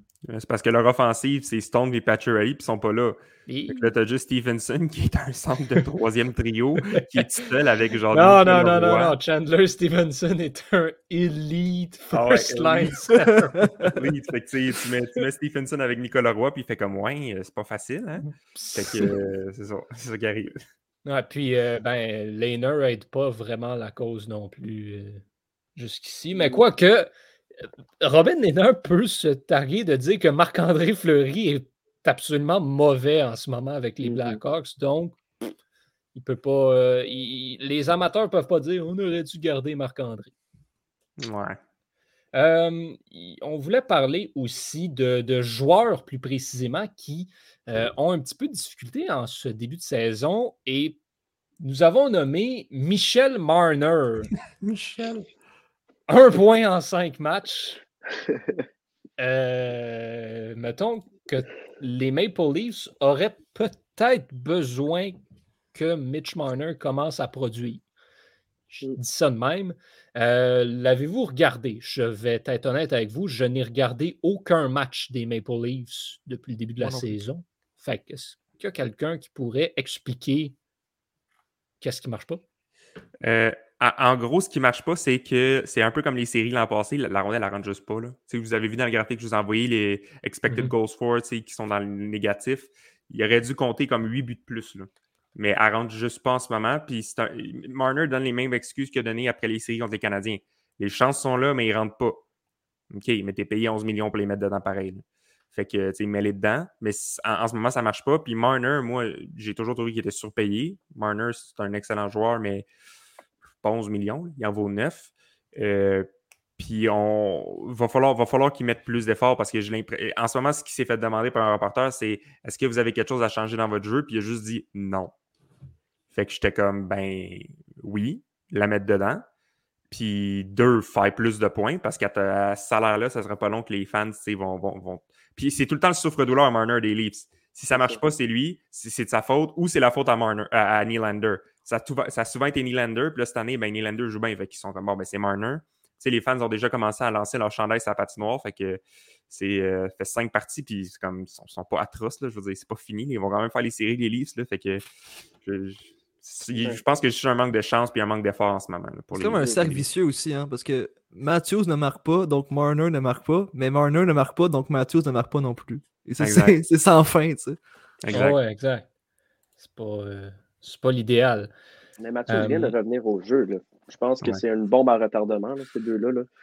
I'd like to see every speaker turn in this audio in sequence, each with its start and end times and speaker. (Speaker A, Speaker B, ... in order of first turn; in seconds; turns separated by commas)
Speaker A: 0.3-9.2, Speaker B: 3.5-3.9, Speaker B: 6.8-7.2, Speaker B: 8.1-14.0, Speaker A: 12.1-13.1, Speaker A: 13.9-20.6, Speaker B: 18.2-19.1, Speaker B: 21.1-25.2, Speaker B: 25.8-27.1, Speaker B: 28.0-35.2, Speaker C: 34.0-34.4, Speaker B: 36.1-40.3, Speaker A: 41.2-41.6, Speaker B: 42.3-51.0, Speaker B: 51.6-54.3, Speaker A: 54.6-55.3, Speaker B: 56.1-57.8, Speaker B: 59.2-65.2, Speaker B: 65.7-67.8, Speaker B: 68.7-80.5, Speaker D: 76.8-77.2, Speaker B: 81.8-82.4, Speaker A: 83.2-102.2, Speaker A: 102.9-112.7, Speaker A: 113.6-125.1, Speaker A: 126.1-129.3, Speaker A: 129.9-154.8, Speaker C: 137.8-138.1, Speaker A: 155.4-159.8, Speaker D: 159.1-167.6, Speaker A: 166.2-166.6, Speaker A: 168.0-168.4, Speaker B: 168.1-168.9, Speaker B: 169.6-171.5, Speaker C: 172.0-176.3, Speaker B: 172.3-172.8